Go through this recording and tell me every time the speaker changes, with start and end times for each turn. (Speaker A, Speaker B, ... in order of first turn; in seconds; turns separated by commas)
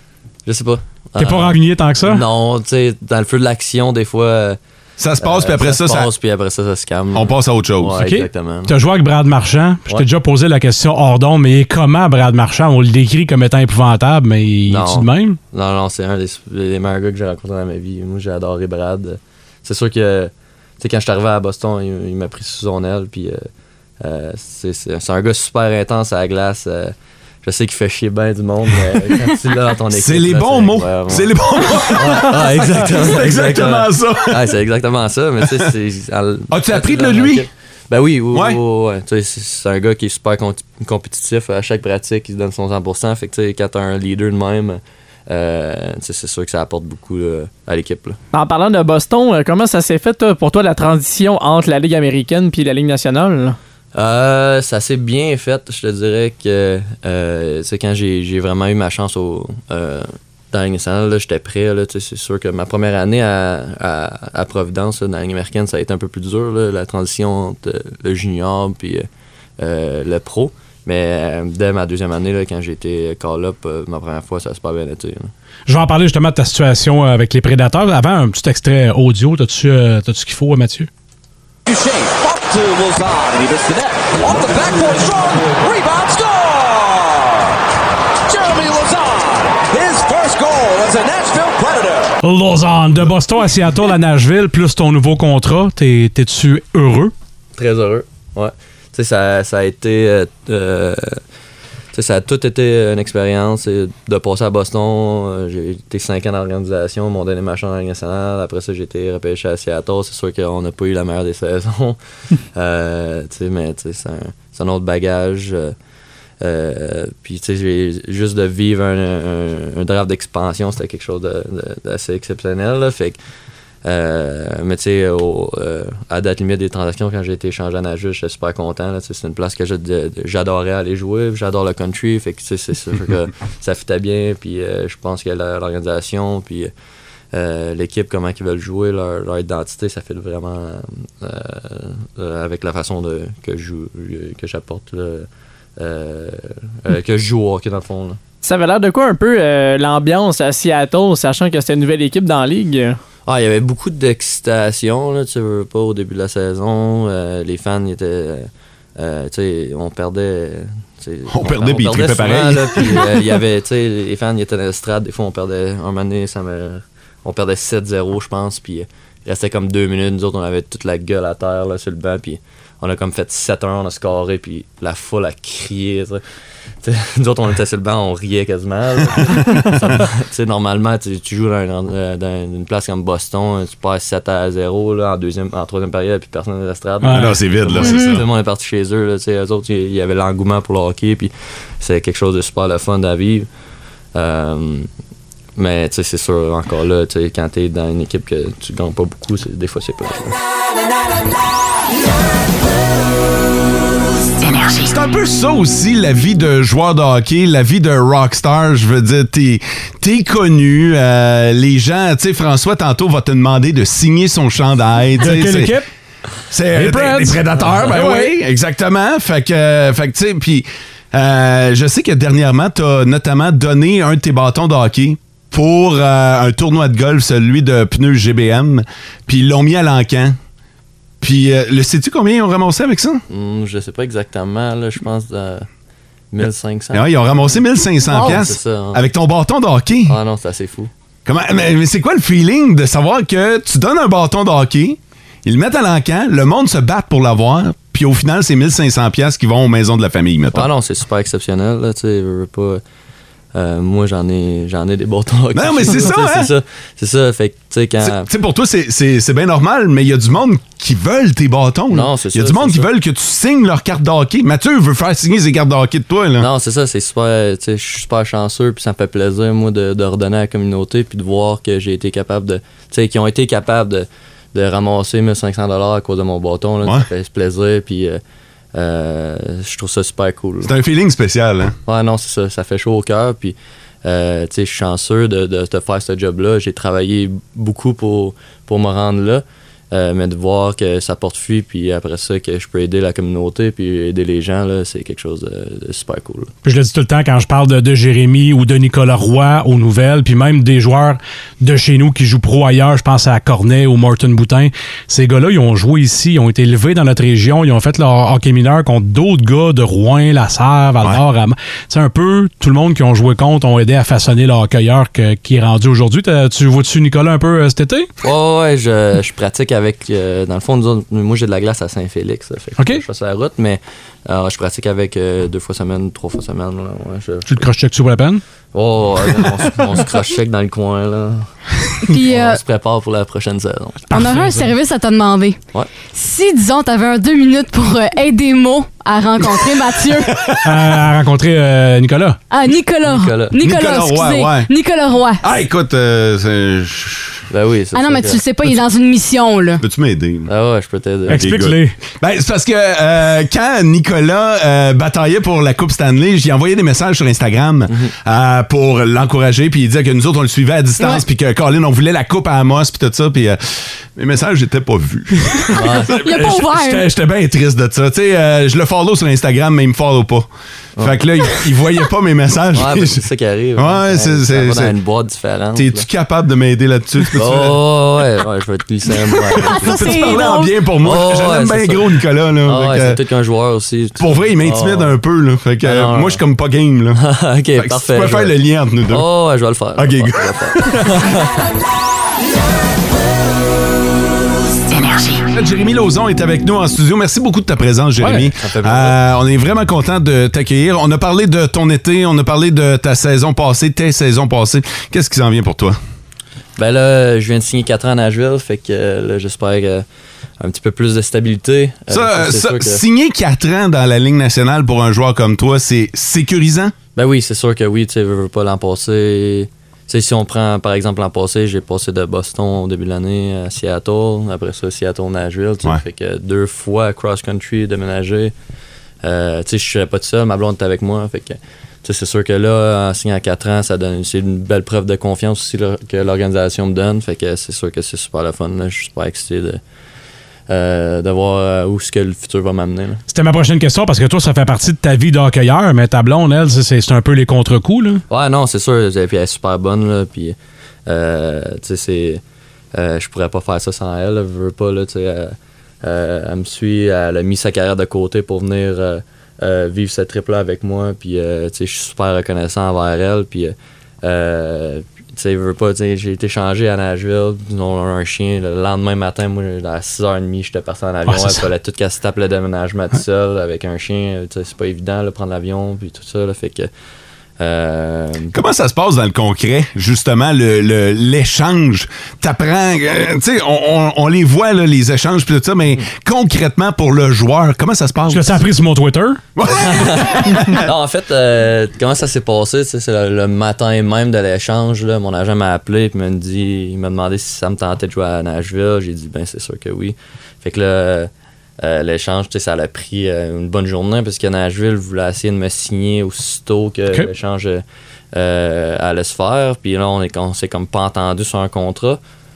Speaker A: 0.5-4.6, Speaker B: 1.2-2.2, Speaker C: 5.0-6.1, Speaker A: 5.2-8.7, Speaker C: 7.1-8.0, Speaker B: 7.9-15.4, Speaker A: 14.7-23.4, Speaker A: 24.0-48.2, Speaker C: 29.9-34.4, Speaker C: 36.5-37.4, Speaker C: 38.3-38.6, Speaker D: 48.3-53.6, Speaker A: 53.9-69.1, Speaker A: 69.6-75.3, Speaker B: 75.7-80.9, Speaker E: 81.7-87.5, Speaker E: 88.3-92.1, Speaker B: 92.2-97.1, Speaker A: 97.6-101.2, Speaker A: 101.9-112.0, Speaker A: 112.5-115.8, Speaker A: 116.4-123.2, Speaker A: 123.8-136.7, Speaker A: 137.3-148.2, Speaker D: 148.4-153.0, Speaker A: 153.3-176.2, Speaker C: 161.3-163.1, Speaker A: 176.8-193.5, Speaker B: 187.0-187.4, Speaker C: 187.1-188.3, Speaker F: 187.8-188.1, Speaker A: 194.1-194.9, Speaker A: 195.6-200.3, Speaker C: 204.8-215.7, Speaker B: 215.2-215.9, Speaker C: 216.5-230.4, Speaker B: 216.7-218.3, Speaker C: 231.2-233.2, Speaker A: 233.3-235.7, Speaker A: 236.3-239.0, Speaker C: 236.9-240.2, Speaker F: 238.1-238.4, Speaker A: 240.1-240.9, Speaker C: 241.2-250.7, Speaker A: 250.5-252.8, Speaker A: 253.5-258.3, Speaker C: 255.5-256.5, Speaker C: 258.0-266.5, Speaker A: 261.9-262.9, Speaker A: 266.4-278.2, Speaker A: 278.7-280.7, Speaker C: 280.6-281.7, Speaker A: 281.9-296.5, Speaker B: 296.6-318.1, Speaker A: 318.2-327.5, Speaker B: 322.8-323.0, Speaker B: 327.4-328.4, Speaker A: 328.7-331.5, Speaker F: 332.0-332.6, Speaker A: 332.2-334.1, Speaker B: 334.1-334.7, Speaker F: 334.1-335.6, Speaker F: 336.1-340.3, Speaker C: 339.8-341.1, Speaker B: 340.6-342.4, Speaker F: 342.5-345.4, Speaker A: 343.0-343.5, Speaker C: 343.6-344.7, Speaker C: 345.4-347.4, Speaker A: 347.5-348.4, Speaker F: 347.9-349.8, Speaker C: 349.8-350.5, Speaker A: 350.4-351.6, Speaker B: 351.3-351.9, Speaker C: 351.3-370.5, Speaker A: 365.7-366.2, Speaker F: 366.1-367.1, Speaker C: 371.0-373.2, Speaker A: 372.7-376.1, Speaker C: 373.8-374.9, Speaker C: 375.7-377.8, Speaker A: 377.4-380.5, Speaker F: 379.6-380.8, Speaker C: 379.6-383.2, Speaker A: 381.0-385.1, Speaker C: 384.2-387.2, Speaker A: 385.8-386.4, Speaker A: 387.1-388.6, Speaker C: 387.8-389.2, Speaker A: 389.1-391.6, Speaker C: 390.0-391.2, Speaker C: 395.5-406.0, Speaker B: 398.2-398.5, Speaker A: 398.6-399.2, Speaker A: 406.8-410.1, Speaker A: 410.6-413.0, Speaker C: 412.1-416.9, Speaker A: 417.1-428.5, Speaker A: 429.2-439.8, Speaker A: 440.7-443.2, Speaker B: 443.3-448.2, Speaker A: 448.3-452.4, Speaker A: 452.9-476.9, Speaker B: 471.3-471.6, Speaker A: 477.6-478.5, Speaker C: 478.5-488.6, Speaker B: 488.3-489.4, Speaker C: 489.6-490.9, Speaker A: 489.8-501.3, Speaker A: 501.8-512.2